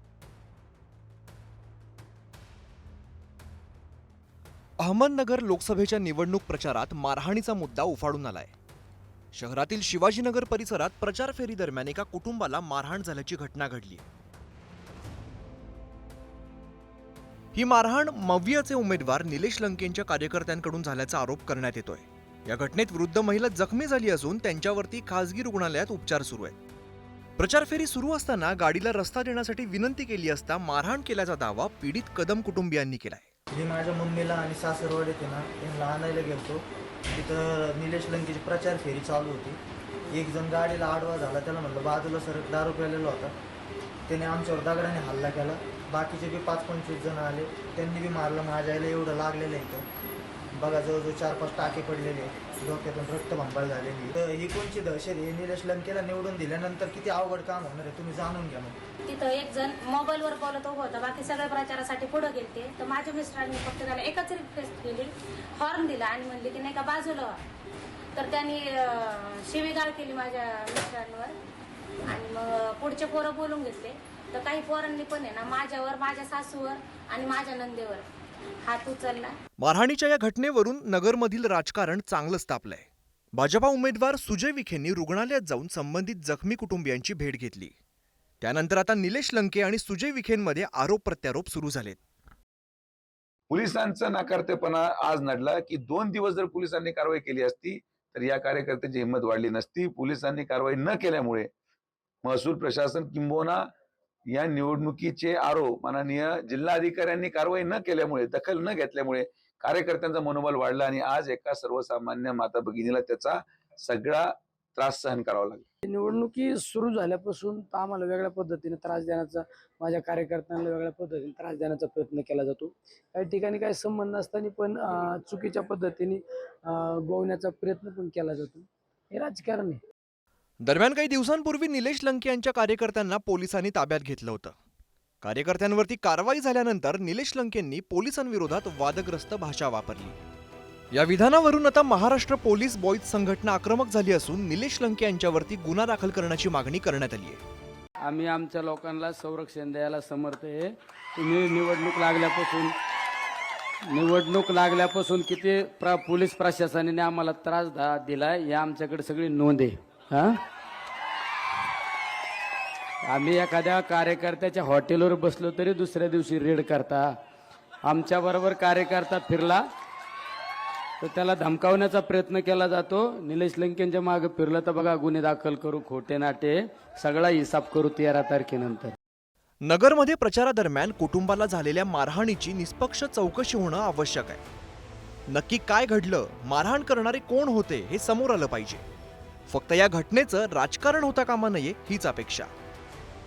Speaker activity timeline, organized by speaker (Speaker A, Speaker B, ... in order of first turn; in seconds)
Speaker A: 4.8-8.5, 9.3-14.1, 17.5-26.6, 27.4-33.2, 79.6-87.7, 88.4-92.0, 130.6-134.6, 135.2-140.2, 140.9-147.4, 179.6-184.4, 185.3-188.8, 189.5-192.5
Speaker B: 33.5-43.3, 44.1-49.9, 50.5-58.8
Speaker C: 59.1-67.4, 68.2-71.4, 72.1-78.0, 78.7-79.3
Speaker D: 93.5-101.5, 102.2-103.6, 104.3-115.7
Speaker E: 115.8-129.8
Speaker F: 148.0-152.7, 153.9-160.3, 163.1-167.1, 167.8-169.6, 171.0-178.9